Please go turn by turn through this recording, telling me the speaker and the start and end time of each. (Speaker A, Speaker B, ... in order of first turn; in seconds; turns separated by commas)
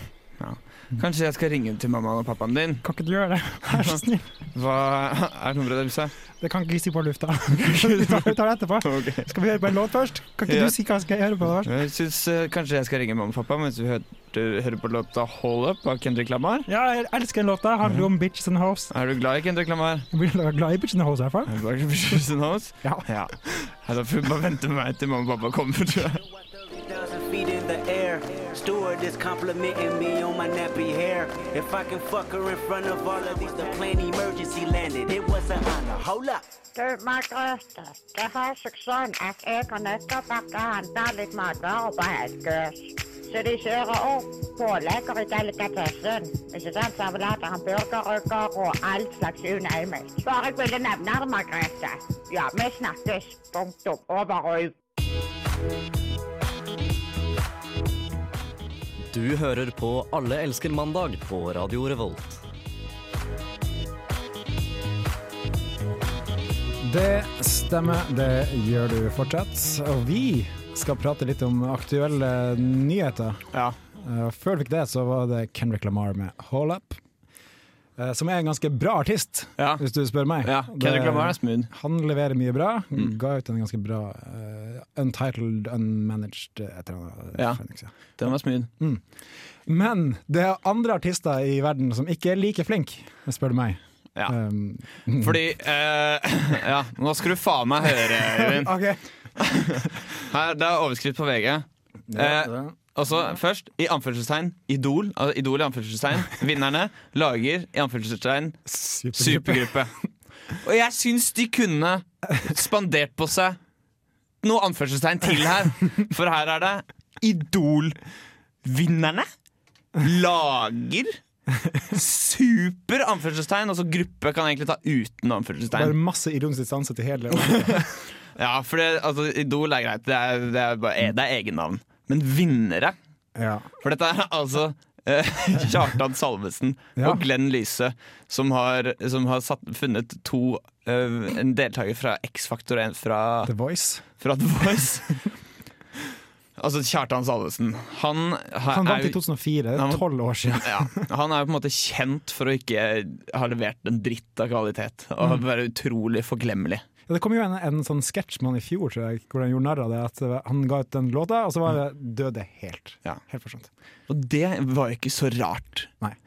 Speaker A: 0.4-2.8, Speaker B: 2.8-4.3, Speaker A: 3.7-4.0, Speaker A: 4.5-6.1, Speaker B: 6.4-11.7, Speaker A: 7.5-9.3, Speaker A: 10.5-10.7, Speaker A: 11.6-16.7, Speaker B: 16.7-18.9, Speaker A: 18.9-20.1, Speaker B: 20.1-21.5, Speaker A: 21.5-26.2, Speaker C: 26.5-36.4, Speaker D: 36.7-54.7, Speaker E: 59.1-62.4, Speaker F: 66.8-77.0, Speaker F: 78.0-87.9, Speaker A: 79.6-79.8, Speaker A: 80.4-81.7, Speaker A: 87.3-88.7, Speaker F: 88.8-89.0, Speaker F: 89.7-95.4, Speaker A: 95.1-98.8, Speaker F: 98.1-99.0, Speaker A: 99.4-109.9, Speaker F: 102.1-102.7, Speaker F: 108.7-109.7, Speaker A: 110.6-113.6, Speaker A: 114.4-118.0, Speaker A: 118.6-119.3, Speaker A: 120.0-121.2, Speaker A: 121.9-125.9, Speaker F: 125.7-127.9, Speaker A: 127.4-127.8, Speaker A: 128.3-132.9, Speaker F: 133.3-133.7, Speaker A: 133.8-143.5, Speaker F: 137.0-137.2, Speaker F: 143.4-144.0, Speaker A: 144.2-145.2, Speaker A: 146.6-149.2, Speaker F: 148.7-151.0, Speaker A: 149.7-156.8, Speaker F: 157.1-163.7, Speaker A: 164.1-165.9